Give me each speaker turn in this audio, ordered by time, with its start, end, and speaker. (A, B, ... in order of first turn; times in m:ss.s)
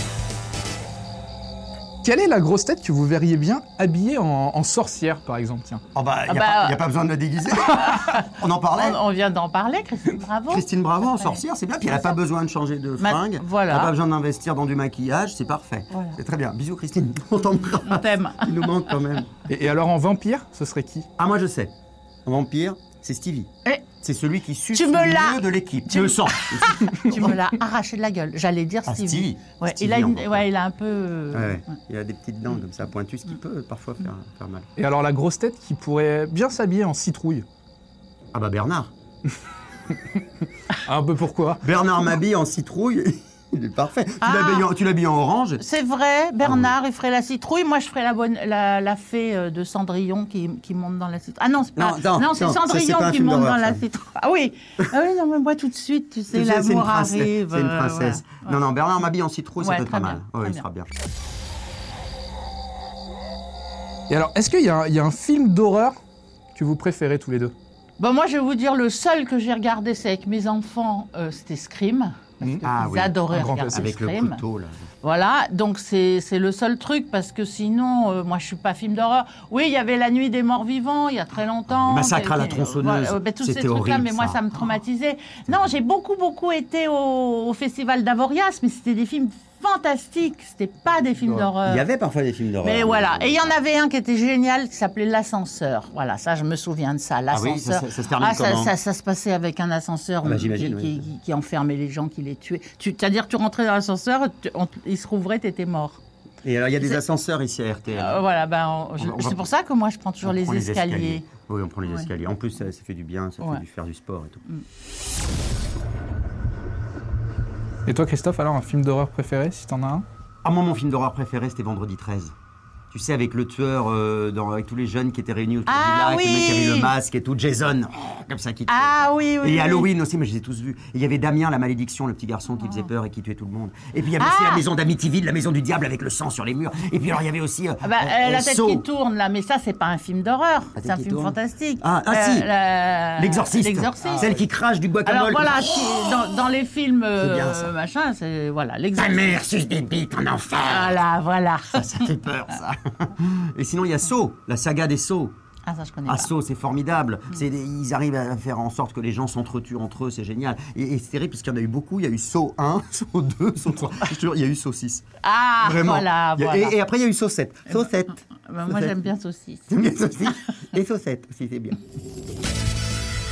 0:02.0-0:05.8 A
0:06.0-0:09.0 B
0:06.3-0:06.8 C
0:07.8-0:08.2 C
0:08.7-0:12.1 C
0:10.5-0:19.3 B
0:13.0-0:13.9 C
0:15.9-0:16.2 C
0:17.5-0:18.7 C
0:19.5-0:21.1 A
0:21.2-0:21.7 B
0:22.2-0:23.5 B
0:24.0-0:27.4 B
0:24.7-0:31.8 C
0:28.9-0:30.5 B
0:31.3-0:34.7 B
0:34.8-0:37.5 A
0:38.3-0:38.9 B
0:40.9-0:41.6 A
0:41.6-0:45.6 B
0:44.2-0:44.7 C
0:45.6-0:58.6 C
0:46.4-0:46.7 B
0:51.8-0:53.8 B
0:56.3-1:00.9 B
0:59.6-1:00.6 C
1:04.1-1:06.0 A
1:06.6-1:07.5 A
1:08.0-1:14.4 C
1:12.6-1:14.9 B
1:13.3-1:13.7 A
1:15.0-1:31.9 C
1:21.7-1:24.4 B
1:31.2-1:33.6 B
1:32.6-1:46.0 C
1:37.3-1:38.7 B
1:40.2-1:41.0 B
1:46.4-1:48.2 B
1:48.0-1:51.3 C
1:49.0-1:49.5 B
1:50.2-1:54.4 B
1:57.9-2:00.1 A
2:00.4-2:02.3 B
2:02.9-2:18.8 B
2:05.7-2:06.9 C
2:08.7-2:09.9 C
2:12.5-2:12.9 C
2:14.2-2:14.6 C
2:17.8-2:24.4 C
2:20.8-2:22.5 B
2:23.2-2:26.2 B
2:25.0-2:29.4 C
2:27.2-2:27.7 B
2:29.0-2:31.0 B
2:30.7-2:32.1 C
2:31.7-2:35.4 B
2:35.7-2:36.3 C
2:36.1-2:45.0 B
2:45.2-2:46.8 C
2:45.6-2:49.1 B
2:47.7-2:49.7 C
2:49.7-2:51.8 B